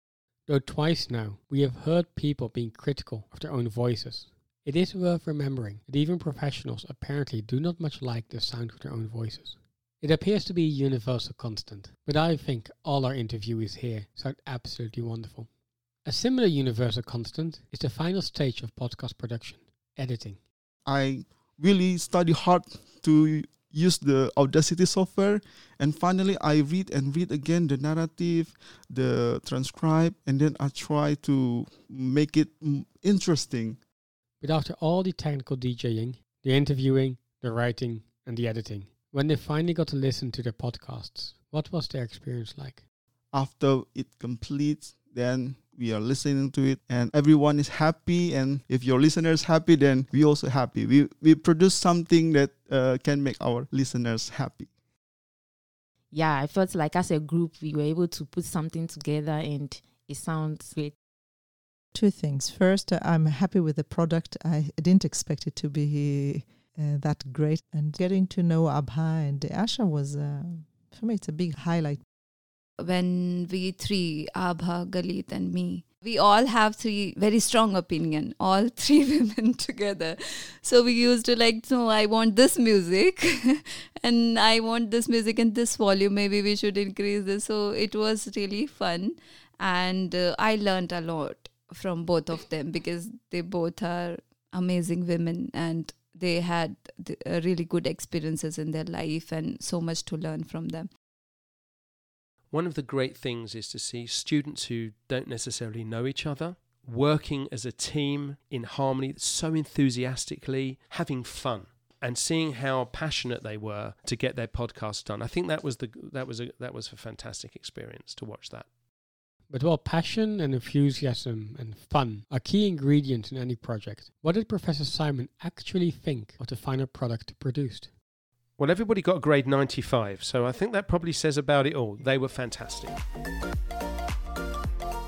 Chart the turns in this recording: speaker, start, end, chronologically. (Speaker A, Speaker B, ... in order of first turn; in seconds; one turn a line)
Speaker A: 0.5-15.5
Speaker A: 16.0-20.4
Speaker B: 20.8-33.8
Speaker A: 34.4-42.8
Speaker B: 43.3-54.7
Speaker C: 56.1-60.9
Speaker D: 61.9-72.0
Speaker E: 72.8-100.9
Speaker F: 102.5-118.7
Speaker A: 119.5-127.9
Speaker F: 128.6-133.0